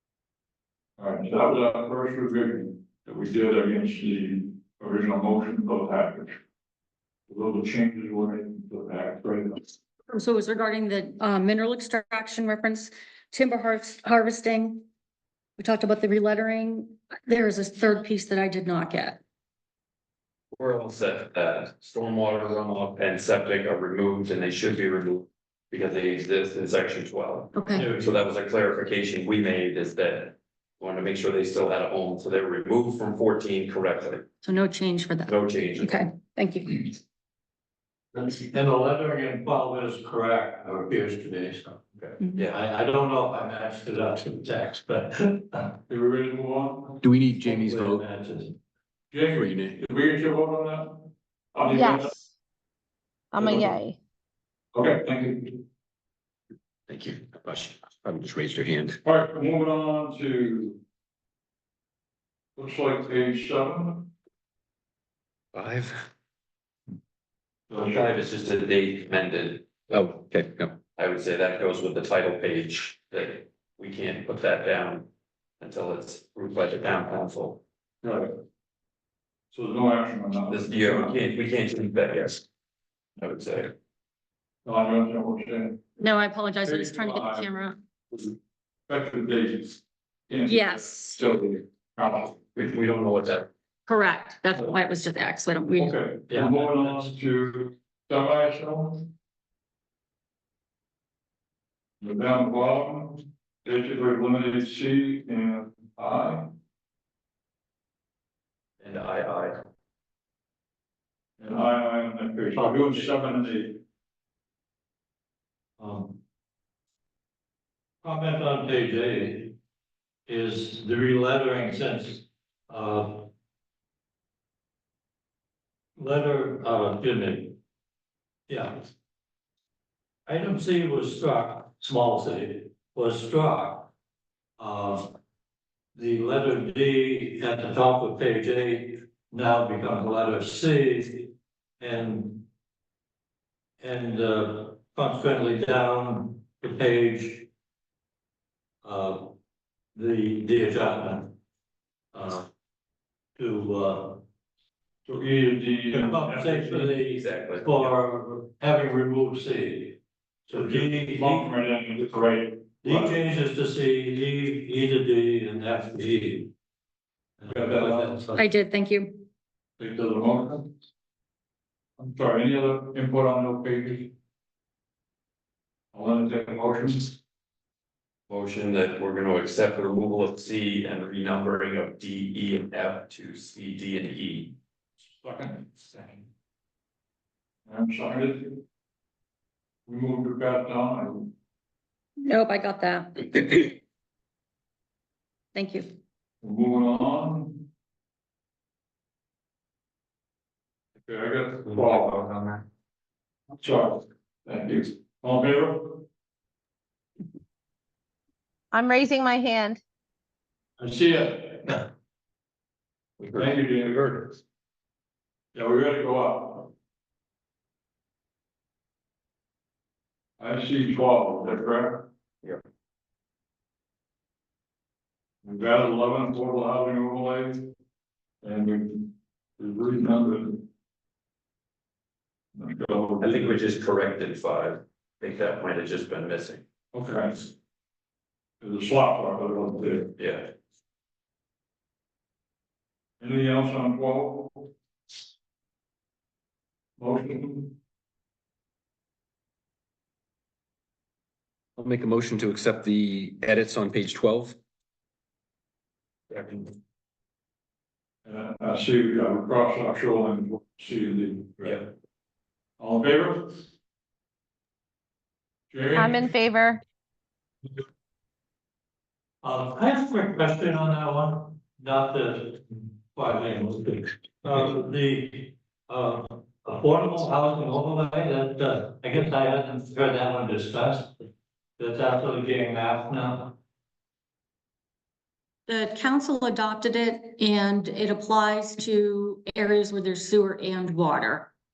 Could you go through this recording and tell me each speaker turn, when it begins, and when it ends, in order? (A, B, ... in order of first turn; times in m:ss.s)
0:01.0-0:06.4 A
0:07.3-0:09.8 A
0:10.1-0:14.9 B
0:15.6-0:19.2 B
0:20.5-0:34.3 C
0:27.5-0:27.9 B
0:27.7-0:28.2 D
0:34.4-0:36.9 B
0:35.3-0:36.0 C
0:38.1-0:41.8 D
0:42.0-0:42.6 C
0:42.5-0:45.8 D
0:45.9-0:47.0 A
0:47.0-0:48.0 E
0:47.4-0:48.6 D
0:49.1-0:52.2 A
0:49.3-0:49.8 E
0:51.6-0:52.2 F
0:53.3-0:54.0 F
0:54.7-0:55.6 A
0:56.9-0:59.0 E
0:59.0-1:00.8 A
1:02.6-1:04.1 A
1:05.5-1:06.1 E
1:07.7-1:08.2 A
1:07.7-1:09.8 C
1:09.9-1:10.8 E
1:10.9-1:15.1 C
1:15.6-1:17.6 C
1:18.0-1:18.3 A
1:19.5-1:21.2 A
1:20.5-1:22.4 C
1:23.2-1:23.7 C
1:24.6-1:25.8 A
1:26.0-1:27.8 B
1:26.6-1:27.5 A
1:28.9-1:32.4 A
1:30.4-1:31.2 B
1:32.6-1:33.5 C
1:33.9-1:36.0 B
1:35.8-1:39.1 A
1:36.3-1:37.1 D
1:42.0-1:46.5 A
1:48.8-1:49.6 C
1:51.4-1:53.8 A
1:52.5-1:53.2 D
1:55.8-1:56.2 D
1:58.0-1:59.6 D
2:00.3-2:03.3 D
2:06.0-2:07.6 D
2:08.5-2:08.9 D
2:10.3-2:13.9 D
2:14.6-2:15.1 D
2:16.0-2:22.4 D
2:23.8-2:27.5 D
2:28.8-2:29.3 D
2:30.0-2:31.3 D
2:32.1-2:32.5 D
2:33.4-2:34.2 D
2:35.1-2:37.0 A
2:35.9-2:41.5 D
2:37.1-2:37.9 C
2:40.5-2:43.2 A
2:42.8-2:46.5 D
2:47.4-2:48.4 D
2:47.5-2:48.2 A
2:48.4-2:49.3 B
2:49.8-2:50.7 A
2:52.0-2:54.1 A
2:55.9-2:57.2 A
2:58.3-3:04.5 C
3:05.1-3:06.3 A
3:07.7-3:08.6 A
3:09.9-3:11.3 A
3:12.2-3:13.8 B
3:15.6-3:15.9 B
3:16.4-3:17.7 A
3:21.0-3:22.6 A
3:23.6-3:26.0 A
3:28.7-3:29.8 F
3:30.8-3:31.8 A
3:33.2-3:34.4 A
3:35.5-3:36.7 A
3:40.4-3:42.1 A
3:45.4-3:47.7 A
3:48.4-3:50.6 A
3:52.6-3:53.6 A
3:53.2-3:56.6 C
3:56.9-3:57.5 A
3:58.6-4:00.1 A
4:00.2-4:00.5 C
4:03.2-4:04.7 A
4:07.0-4:07.8 A
4:11.8-4:14.6 E
4:18.2-4:21.9 A
4:22.8-4:23.7 A
4:25.7-4:26.3 A
4:26.0-4:26.8 F
4:29.4-4:41.3 D
4:41.8-4:43.6 D
4:45.7-4:51.5 B